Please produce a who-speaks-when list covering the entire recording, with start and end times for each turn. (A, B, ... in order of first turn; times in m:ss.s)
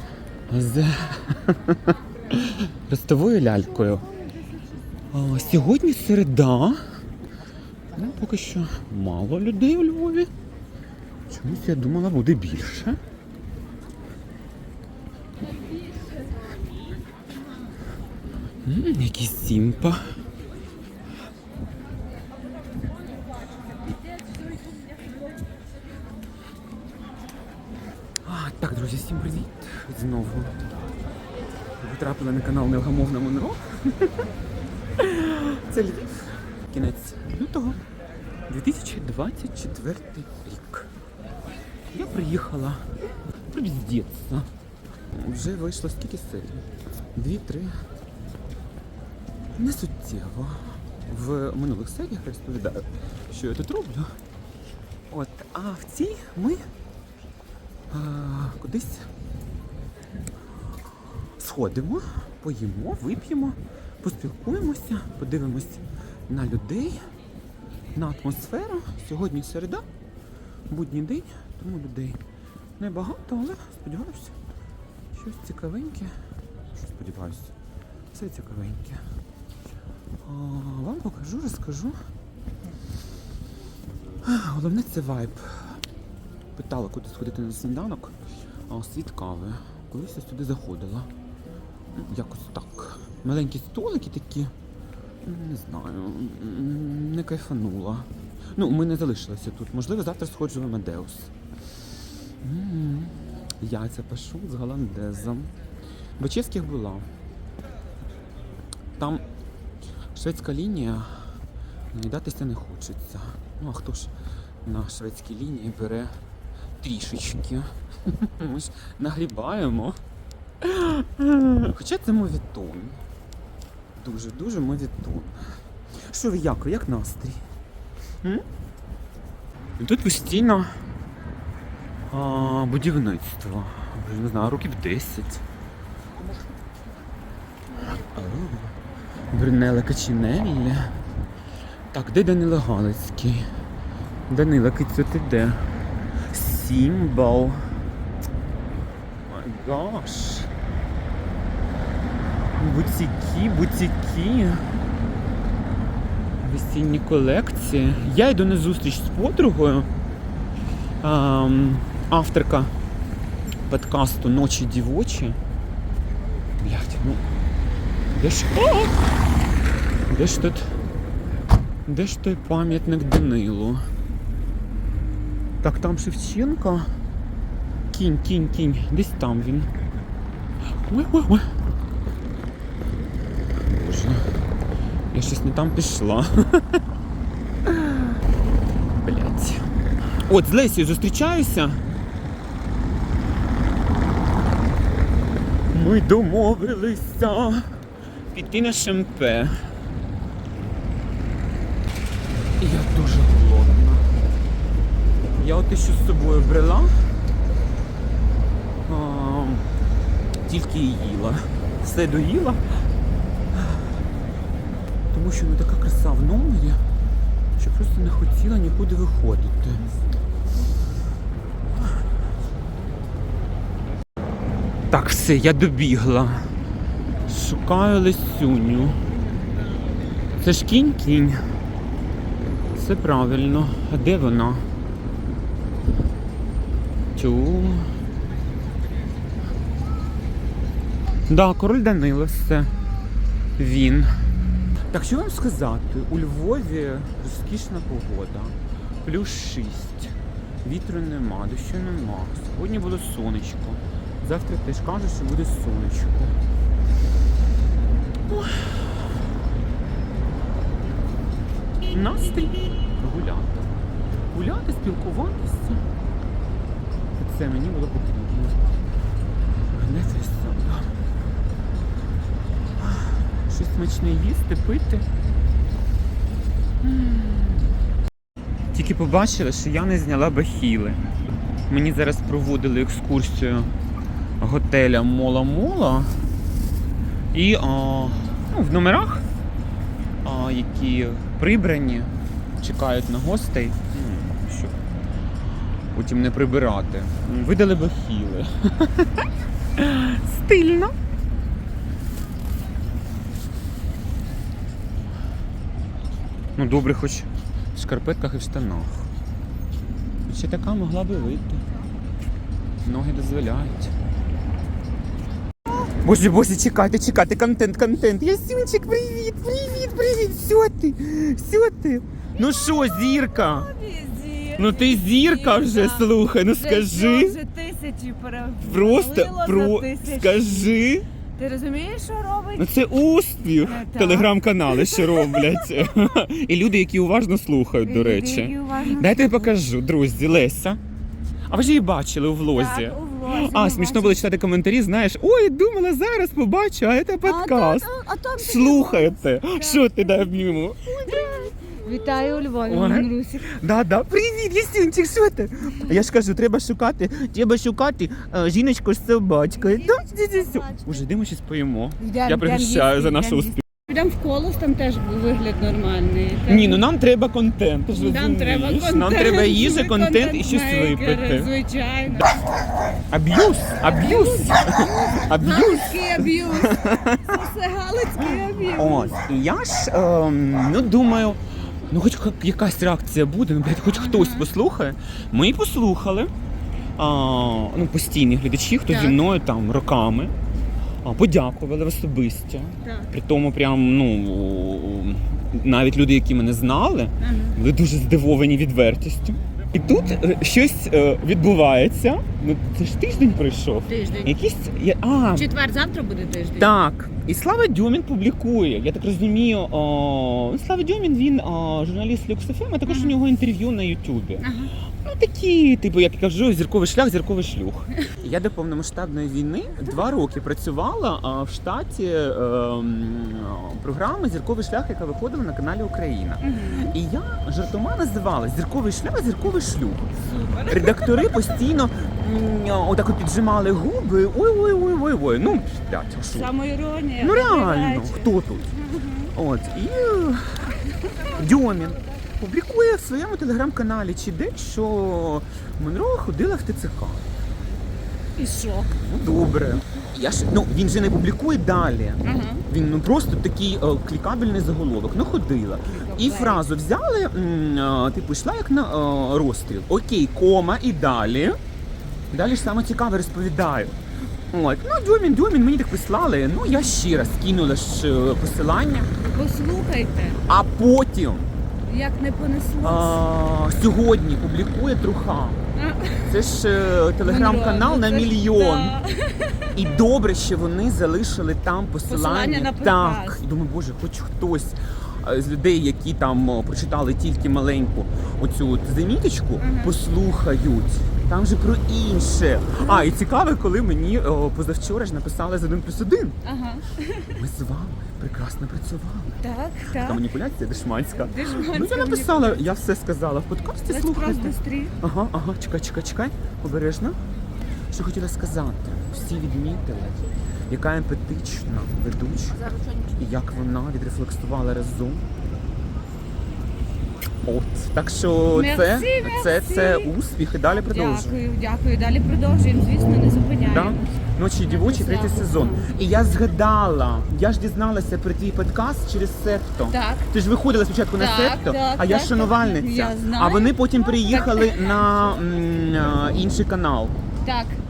0:00.5-0:04.0 A
0:05.1-0:06.8 A
0:07.9-0:10.3 A
0:11.3-0:13.0 A
0:18.6-0:20.0 A
0:28.2-0:30.6 A
0:31.8-0:34.3 A
0:35.0-0:37.8 A
0:38.5-0:40.9 A
0:41.9-0:42.9 A
0:43.5-0:44.5 A
0:45.1-0:47.7 A
0:49.6-0:54.1 A
0:55.1-0:56.6 A
0:57.9-0:59.1 A
1:01.4-1:07.0 A
1:08.0-1:09.8 A
1:10.7-1:12.2 A
1:12.8-1:14.3 A
1:15.1-1:16.1 A
1:16.8-1:17.5 A
1:18.1-1:19.0 A
1:20.2-1:22.0 A
1:24.2-1:25.8 A
1:26.6-1:28.1 A
1:28.7-1:31.1 A
1:32.0-1:34.5 A
1:35.2-1:41.3 A
1:42.4-1:45.5 A
1:46.2-1:47.1 A
1:49.0-1:49.2 A
1:50.1-1:51.3 A
1:51.9-1:54.1 A
1:54.6-1:56.1 A
1:56.8-2:00.0 A
2:00.6-2:03.0 A
2:04.0-2:05.4 A
2:06.0-2:07.4 A
2:09.8-2:10.7 A
2:12.1-2:15.4 A
2:17.9-2:18.7 A
2:19.3-2:20.9 A
2:21.9-2:23.4 A
2:24.3-2:25.6 A
2:26.3-2:27.6 A
2:29.3-2:30.5 A
2:32.6-2:34.6 A
2:36.4-2:39.9 A
2:41.0-2:42.7 A
2:43.7-2:45.4 A
2:46.6-2:47.2 A
2:48.1-2:48.9 A
2:50.1-2:50.7 A
2:51.9-2:53.8 A
2:55.6-2:56.9 A
2:57.9-2:59.7 A
3:00.8-3:01.5 A
3:03.6-3:04.2 A
3:05.1-3:06.8 A
3:07.6-3:08.1 A
3:09.0-3:09.6 A
3:10.3-3:11.8 A
3:15.7-3:17.6 A
3:18.3-3:19.5 A
3:22.6-3:24.0 A
3:25.4-3:26.9 A
3:28.9-3:29.6 A
3:30.4-3:32.6 A
3:33.5-3:33.8 A
3:35.1-3:36.8 A
3:37.6-3:39.9 A
3:44.9-3:46.5 A
3:47.3-3:49.0 A
3:50.4-3:51.4 A
3:52.7-3:54.6 A
3:57.2-3:57.9 A
4:01.3-4:02.7 A
4:03.6-4:04.1 A
4:04.9-4:16.4 A
4:18.3-4:19.0 A
4:21.9-4:23.7 A
4:24.3-4:25.8 A
4:27.2-4:28.6 A
4:29.7-4:30.9 A
4:32.8-4:35.0 A
4:36.8-4:37.7 A
4:38.7-4:41.0 A
4:41.7-4:43.7 A
4:44.4-4:46.1 A
4:47.3-4:49.2 A
4:50.2-4:54.7 A
4:55.9-4:59.2 A
4:59.8-5:00.9 A
5:06.6-5:09.1 A
5:10.3-5:11.6 A
5:12.8-5:13.9 A
5:16.0-5:23.7 A
5:22.4-5:30.8 B
5:24.6-5:27.4 A
5:28.6-5:31.0 A
5:31.4-5:32.8 B
5:32.6-5:40.8 A
5:33.6-5:35.9 B
5:37.8-5:39.5 B
5:41.5-5:51.5 A
5:42.5-5:44.2 B
5:47.2-5:53.5 B
5:52.6-6:03.6 A
5:59.6-6:01.0 B
6:02.0-6:06.8 B
6:06.5-6:11.5 A
6:07.9-6:12.3 B
6:12.1-6:12.4 A
6:13.1-6:17.3 A
6:13.8-6:19.1 B
6:18.6-6:26.3 A
6:23.9-6:24.5 B
6:27.0-6:30.3 A
6:28.9-6:29.2 B
6:31.0-6:45.5 A
6:32.8-6:33.1 B
6:37.2-6:37.6 B
6:43.9-6:44.4 B
6:45.3-6:46.7 B
6:46.6-6:54.4 A
6:52.8-6:53.2 B
6:54.4-6:54.7 B
6:55.0-7:10.1 A
7:06.4-7:06.9 B
7:10.6-7:16.5 A
7:16.3-7:19.3 B
7:17.2-7:18.7 A
7:19.3-7:20.7 A
7:21.0-7:21.3 B
7:21.3-7:27.3 A
7:28.4-7:29.0 B
7:29.0-7:41.6 A
7:32.2-7:32.6 B
7:36.0-7:36.6 B
7:42.3-7:43.9 A
7:44.5-7:49.1 A
7:49.2-7:50.4 B
7:50.5-7:51.5 A
7:51.8-7:53.2 B
7:52.8-7:55.6 A
7:55.7-7:56.4 B
7:56.2-7:58.9 A
7:57.2-7:59.7 B
7:59.7-8:16.4 A
8:02.1-8:03.4 B
8:09.6-8:09.9 B
8:12.8-8:13.1 B
8:16.4-8:17.4 B
8:17.3-8:27.2 A
8:19.4-8:20.2 B
8:21.2-8:22.7 B
8:23.9-8:25.0 B
8:27.9-8:32.6 A
8:33.2-8:35.2 A
8:37.4-8:41.3 A
8:38.5-8:40.1 B
8:40.6-8:44.0 B
8:43.7-8:57.1 A
8:44.6-8:46.3 B
8:49.9-8:50.2 B
8:51.2-8:55.2 B
8:57.4-8:57.8 B